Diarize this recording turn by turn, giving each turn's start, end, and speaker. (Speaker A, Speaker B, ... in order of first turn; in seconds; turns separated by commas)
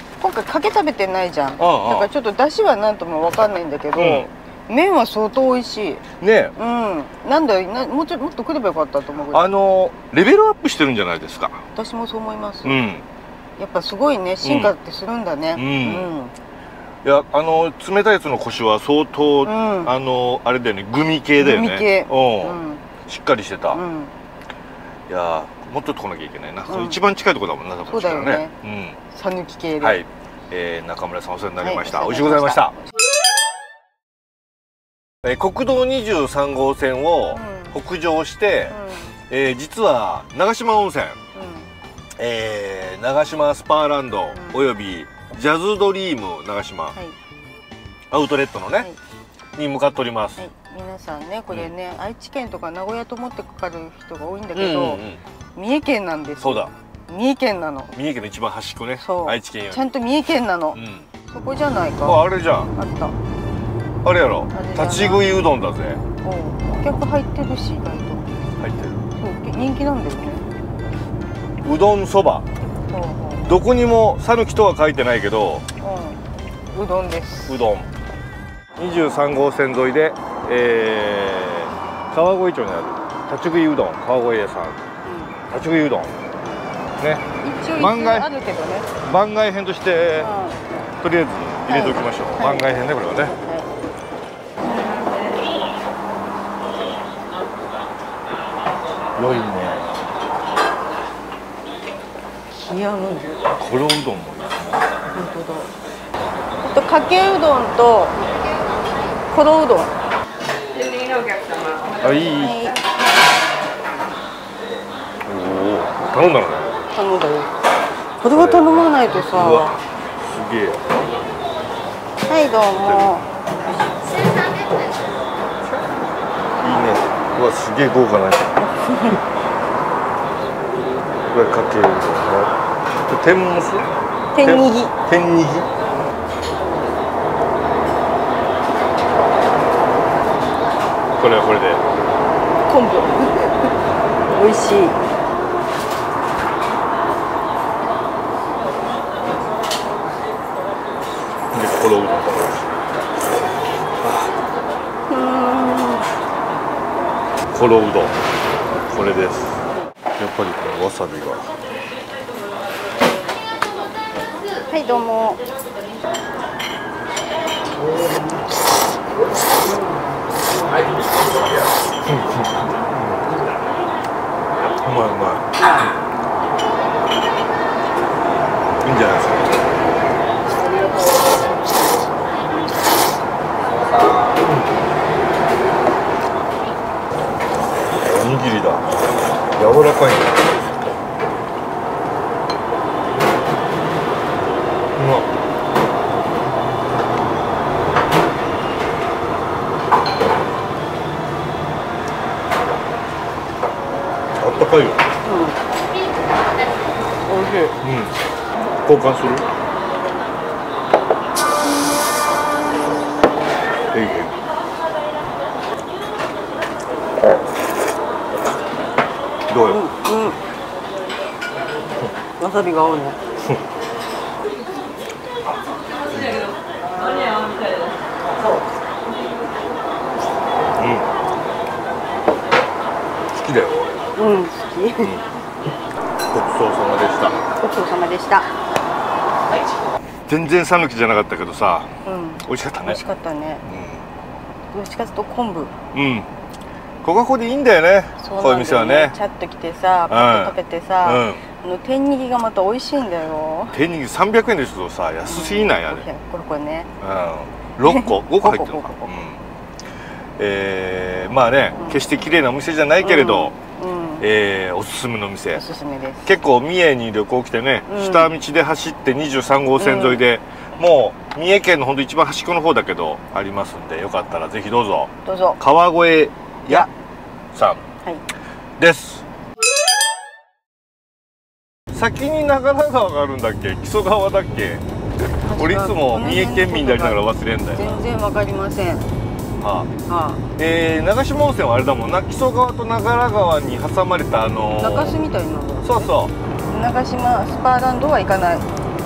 Speaker A: 0.2-6.0, Speaker B: 1.6-2.1, Speaker B: 4.0-4.3, Speaker B: 6.2-6.5, Speaker A: 6.6-9.5, Speaker B: 9.3-11.6, Speaker A: 11.8-12.8, Speaker B: 12.7-13.1, Speaker A: 13.6-16.3, Speaker B: 14.4-14.7, Speaker B: 15.6-16.1, Speaker B: 17.0-23.8, Speaker A: 19.4-19.9, Speaker A: 21.4-22.8, Speaker A: 23.7-24.1, Speaker B: 25.1-29.0, Speaker A: 26.7-27.0, Speaker A: 27.9-28.5, Speaker A: 29.1-30.0, Speaker B: 29.8-32.7, Speaker A: 31.6-32.8, Speaker B: 35.2-38.8, Speaker A: 37.3-37.8, Speaker A: 38.7-39.1, Speaker B: 39.3-41.2, Speaker A: 41.4-41.7, Speaker B: 42.2-47.0, Speaker A: 44.3-44.6, Speaker B: 48.1-48.9, Speaker B: 49.6-50.4, Speaker A: 50.4-55.0, Speaker B: 54.5-55.2, Speaker A: 55.5-57.9, Speaker B: 56.4-56.7, Speaker B: 57.9-59.8, Speaker A: 59.0-62.2, Speaker B: 60.8-61.1, Speaker B: 62.0-62.7, Speaker A: 62.7-63.1, Speaker B: 64.0-66.0, Speaker A: 64.5-65.4, Speaker A: 66.2-68.3, Speaker B: 68.6-69.0, Speaker A: 69.2-70.5, Speaker B: 71.6-72.5, Speaker A: 72.9-73.5, Speaker B: 73.5-75.7, Speaker A: 75.8-76.2, Speaker A: 76.7-77.6, Speaker B: 77.5-77.9, Speaker B: 78.8-84.8, Speaker A: 85.0-85.4, Speaker B: 85.5-86.2, Speaker A: 86.4-86.7, Speaker A: 87.4-88.9, Speaker B: 87.8-88.3, Speaker B: 89.0-90.3, Speaker A: 90.2-90.7, Speaker B: 91.0-93.3, Speaker A: 91.7-93.7, Speaker A: 94.6-95.3, Speaker B: 99.2-99.9, Speaker A: 102.5-103.5, Speaker B: 103.6-104.8, Speaker A: 105.1-105.7, Speaker A: 106.6-108.2, Speaker A: 109.3-109.9, Speaker B: 112.0-112.7, Speaker A: 112.3-112.8, Speaker B: 115.3-116.8, Speaker A: 116.9-117.5, Speaker A: 118.2-119.7, Speaker B: 118.3-121.0, Speaker A: 122.3-123.3, Speaker B: 122.8-123.3, Speaker B: 126.6-128.6, Speaker A: 128.6-129.2, Speaker B: 131.3-132.6, Speaker B: 133.1-133.9, Speaker A: 134.3-134.9, Speaker B: 134.4-135.7, Speaker B: 141.1-141.8, Speaker A: 142.7-143.7, Speaker A: 144.3-145.0, Speaker B: 151.5-153.0, Speaker B: 154.0-154.3, Speaker A: 155.1-156.1, Speaker B: 157.5-158.2, Speaker B: 158.9-159.6, Speaker B: 160.2-161.5, Speaker A: 164.7-165.4, Speaker B: 172.0-173.2, Speaker B: 174.8-175.9, Speaker B: 178.8-179.7, Speaker B: 188.0-188.8, Speaker B: 189.6-190.8, Speaker B: 195.0-195.3, Speaker B: 204.4-205.1, Speaker A: 205.2-205.6, Speaker A: 207.3-207.8, Speaker B: 207.8-208.2, Speaker B: 208.8-209.5, Speaker B: 213.9-214.4, Speaker B: 219.5-219.8, Speaker A: 219.7-220.4, Speaker A: 222.4-223.2, Speaker B: 226.1-226.5, Speaker B: 230.8-231.2, Speaker B: 233.3-234.1, Speaker A: 234.2-235.2, Speaker B: 236.3-237.4, Speaker A: 237.6-238.5, Speaker B: 240.3-241.9, Speaker A: 242.1-243.6, Speaker B: 242.4-243.0, Speaker B: 243.7-244.1, Speaker A: 244.7-245.8, Speaker B: 245.9-246.3, Speaker B: 247.0-249.2, Speaker A: 248.2-253.8, Speaker B: 250.1-251.4, Speaker B: 253.7-256.1, Speaker A: 255.3-256.9, Speaker B: 257.0-259.4, Speaker A: 257.9-259.1, Speaker B: 260.4-263.5, Speaker A: 263.0-264.2, Speaker B: 264.2-265.6, Speaker A: 265.6-266.3, Speaker B: 266.2-276.9, Speaker A: 267.9-268.3, Speaker A: 269.8-270.2, Speaker A: 275.2-275.6, Speaker B: 277.5-277.8, Speaker B: 278.8-279.2, Speaker B: 281.9-284.8, Speaker A: 285.4-287.2, Speaker B: 285.6-288.0, Speaker A: 287.7-289.1, Speaker B: 289.6-289.9, Speaker A: 290.1-290.4, Speaker B: 290.6-295.2, Speaker A: 294.8-296.1, Speaker B: 295.8-296.3, Speaker A: 296.7-298.7